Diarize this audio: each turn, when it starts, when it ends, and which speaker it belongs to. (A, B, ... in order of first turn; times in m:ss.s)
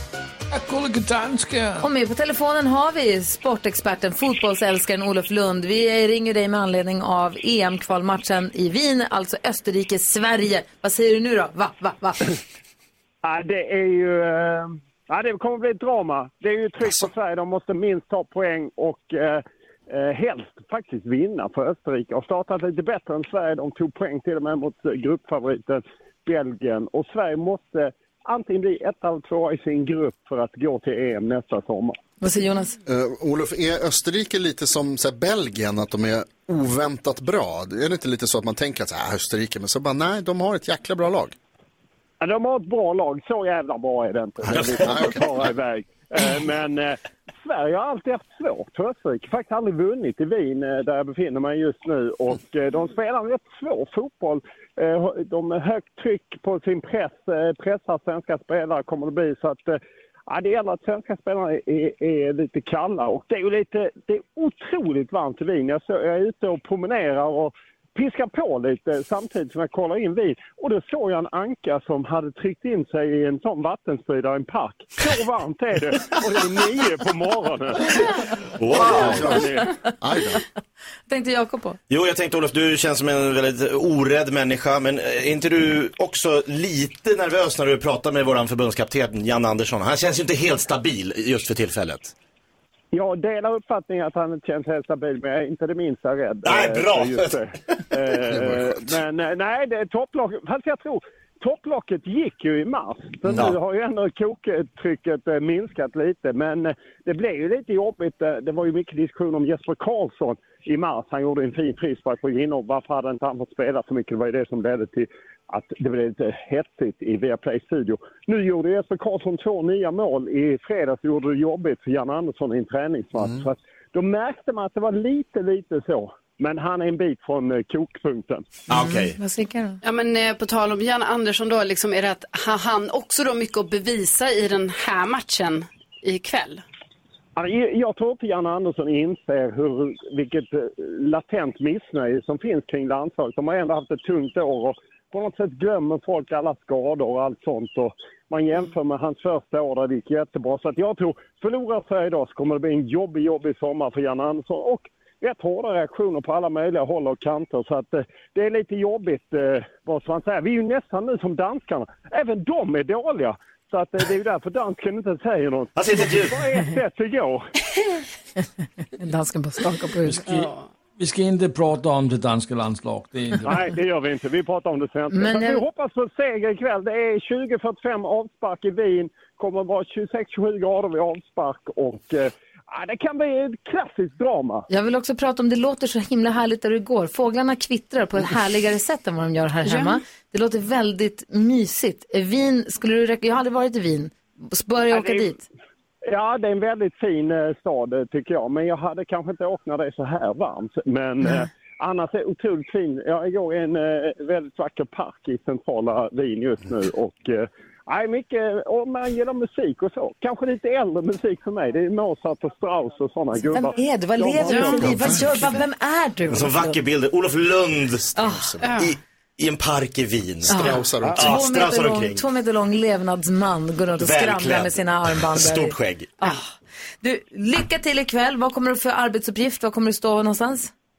0:00.5-0:01.8 A
0:01.8-0:12.3 B
0:13.2-0:32.0 C
0:32.2-0:32.7 B
0:32.8-0:41.3 D
0:42.2-1:18.1 C
0:44.5-0:45.4 D
0:44.5-0:45.3 E
1:18.6-1:19.4 E
1:18.7-1:20.4 D
1:18.7-1:19.7 C
1:21.1-1:21.8 B
1:21.9-1:32.1 E
1:32.9-2:08.6 C
1:36.4-1:37.4 E
1:38.2-1:39.0 D
1:43.2-1:43.6 D
2:03.2-2:03.4 D
2:08.7-2:09.2 E
2:08.7-2:09.8 B
2:09.8-2:16.6 F
2:17.4-2:47.5 C
2:45.7-2:46.5 E
2:49.0-2:50.4 B
2:50.0-2:53.6 A
2:50.3-2:50.7 F
2:53.4-3:04.6 C
2:55.1-2:55.6 B
3:04.7-3:15.4 B
3:09.6-3:10.0 F
3:14.9-3:15.4 C
3:16.1-3:35.4 C
3:33.4-3:36.8 B
3:34.5-3:34.8 F
3:34.8-3:35.5 D
3:36.3-3:42.2 E
3:38.1-3:38.6 B
3:38.6-3:38.9 F
3:40.5-3:50.7 B
3:40.5-3:41.4 D
3:44.0-3:46.1 E